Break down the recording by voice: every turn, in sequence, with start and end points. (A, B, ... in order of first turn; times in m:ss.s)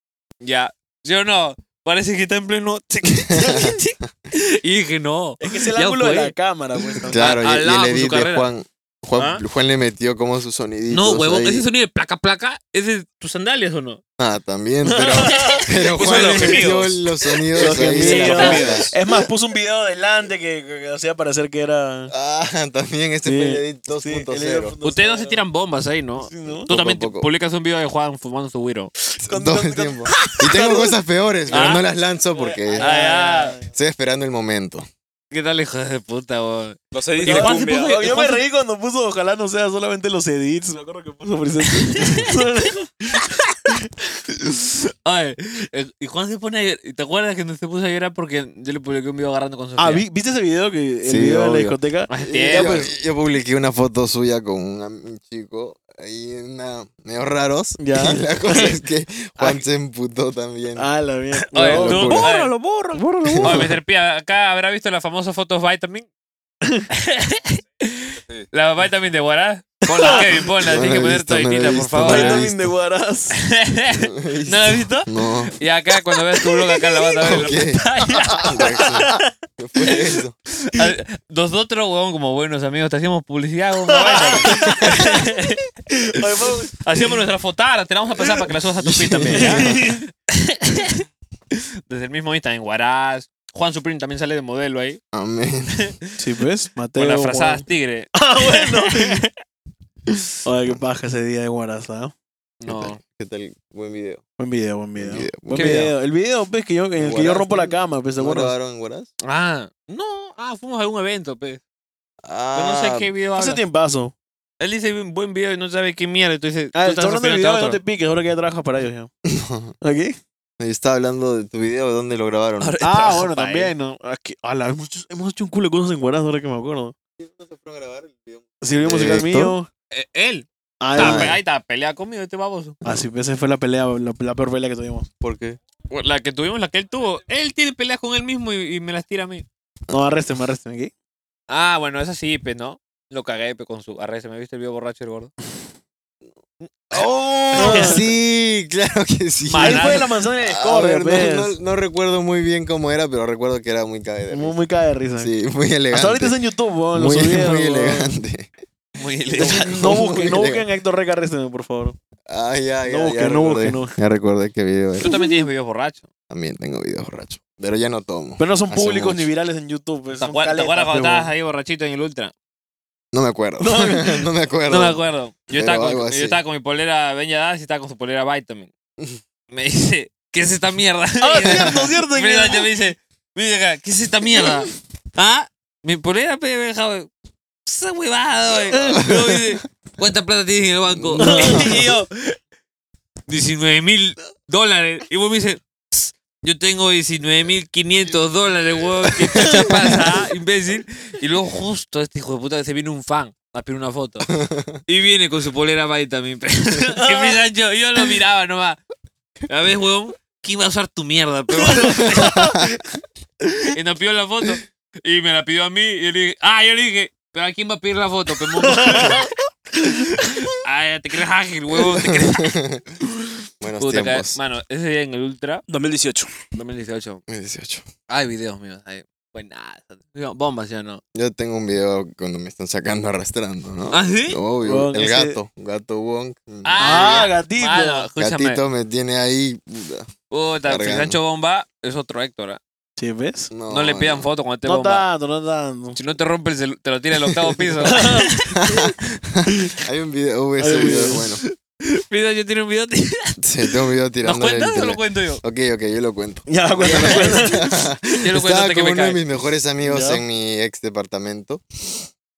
0:00.4-0:06.4 A
0:03.2-0:03.7 B
0:05.4-0:07.4 C
0:07.1-0:11.7 B
0:07.1-0:08.5 A
0:09.2-0:09.4 A
0:10.9-0:14.0 A
0:14.2-0:18.9 B
0:14.9-0:16.7 C
0:15.4-0:16.7 A
0:16.0-0:17.0 D
0:17.6-0:22.1 C
0:17.6-0:18.9 A
0:18.3-0:18.9 D
0:22.1-0:24.8 B
0:23.2-0:25.4 C
0:24.8-0:28.9 A
0:26.3-0:26.7 C
0:26.7-0:27.3 B
0:29.2-0:30.9 C
0:29.2-0:33.0 B
0:31.5-0:33.7 C
0:31.5-0:31.8 A
0:32.8-0:33.6 A
0:33.7-0:34.9 B
0:35.3-0:38.4 A
0:36.9-0:38.2 D
0:37.2-0:43.2 C
0:41.8-0:42.3 A
0:44.4-0:50.0 A
0:49.8-0:52.9 C
0:51.0-1:00.9 B
0:52.1-0:52.8 A
0:57.8-0:58.7 C
1:00.8-1:03.7 C
1:01.5-1:02.5 A
1:01.7-1:02.3 B
1:03.2-1:03.7 B
1:03.4-1:06.1 A
1:06.9-1:12.5 A
1:09.9-1:10.5 C
1:10.6-1:12.7 B
1:12.0-1:13.4 C
1:13.4-1:19.0 A
1:14.1-1:15.5 B
1:16.4-1:17.1 C
1:17.2-1:17.8 B
1:18.1-1:19.2 C
1:18.4-1:20.4 B
1:20.7-1:25.6 A
1:23.9-1:25.2 C
1:24.6-1:25.0 B
1:26.1-1:26.8 C
1:26.8-1:31.0 A
1:28.8-1:29.8 B
1:29.3-1:30.0 C
1:31.9-1:35.0 A
1:35.1-1:35.9 B
1:36.2-1:39.3 C
1:37.0-1:39.2 A
1:40.4-1:42.1 C
1:42.6-1:43.0 A
1:42.7-1:44.2 B
1:44.4-1:48.5 C
1:45.0-1:45.9 B
1:45.5-1:45.9 A
1:47.0-1:49.1 B
1:49.2-1:51.6 A
1:52.2-1:53.1 B
1:52.5-1:53.6 A
1:53.4-1:54.1 C
1:54.6-1:57.8 A
1:56.7-1:59.1 C
1:59.2-1:59.8 B
1:59.8-2:00.2 C
2:00.6-2:02.8 B
2:02.6-2:03.7 A
2:02.8-2:06.9 C
2:07.2-2:09.6 B
2:08.6-2:09.7 C
2:09.9-2:12.8 A
2:10.8-2:11.4 C
2:11.0-2:11.4 B
2:12.8-2:15.1 C
2:15.2-2:15.6 B
2:15.9-2:19.5 A
2:19.9-2:20.9 C
2:21.5-2:25.3 A
2:26.6-2:28.0 A
2:26.9-2:34.6 B
2:27.6-2:28.0 C
2:29.5-2:30.0 A
2:29.6-2:31.5 C
2:34.3-2:35.3 C
2:35.2-2:36.4 B
2:35.9-2:38.1 C
2:36.9-2:38.5 B
2:39.0-2:40.0 A
2:39.4-2:40.7 B
2:39.4-2:42.0 C
2:42.3-2:45.1 B
2:42.9-2:44.0 C
2:45.0-2:46.1 A
2:45.1-2:45.3 C
2:46.3-2:49.3 B
2:48.4-2:51.3 C
2:50.2-2:52.3 A
2:53.1-2:56.4 B
2:53.6-2:54.3 C
2:54.7-2:58.7 A
2:59.5-3:07.1 A
3:01.2-3:02.7 C
3:07.6-3:12.4 A
3:08.7-3:09.1 C
3:09.0-3:09.4 B
3:10.9-3:11.9 B
3:11.2-3:11.8 C
3:13.3-3:24.3 A
3:19.1-3:20.0 B
3:24.3-3:24.8 B
3:24.9-3:28.8 A
3:27.0-3:27.4 C
3:29.5-3:32.5 A
3:32.0-3:32.7 B
3:33.7-3:39.2 A
3:38.7-3:39.3 C
3:40.1-3:42.5 A
3:41.7-3:42.8 B
3:43.6-3:44.4 B
3:43.8-3:45.6 A
3:45.7-3:46.3 D
3:46.5-3:47.2 A
3:47.3-3:47.9 B
3:48.1-3:51.0 A
3:51.1-3:57.2 B
3:53.9-3:54.4 A
3:54.6-3:55.4 C
3:56.6-3:58.6 A
3:56.8-3:58.1 C
3:58.2-4:00.1 B
4:00.3-4:02.6 A
4:00.6-4:01.2 B
4:03.0-4:03.5 C
4:03.5-4:04.3 B
4:03.7-4:05.1 A
4:04.6-4:06.0 C
4:06.0-4:08.5 A
4:07.5-4:07.9 B
4:07.8-4:08.4 C
4:08.5-4:11.4 B
4:10.6-4:11.4 C
4:11.9-4:13.4 A
4:13.4-4:22.0 B
4:14.2-4:15.4 A
4:16.5-4:17.7 C
4:16.8-4:17.4 A
4:18.2-4:19.2 A
4:19.8-4:20.2 C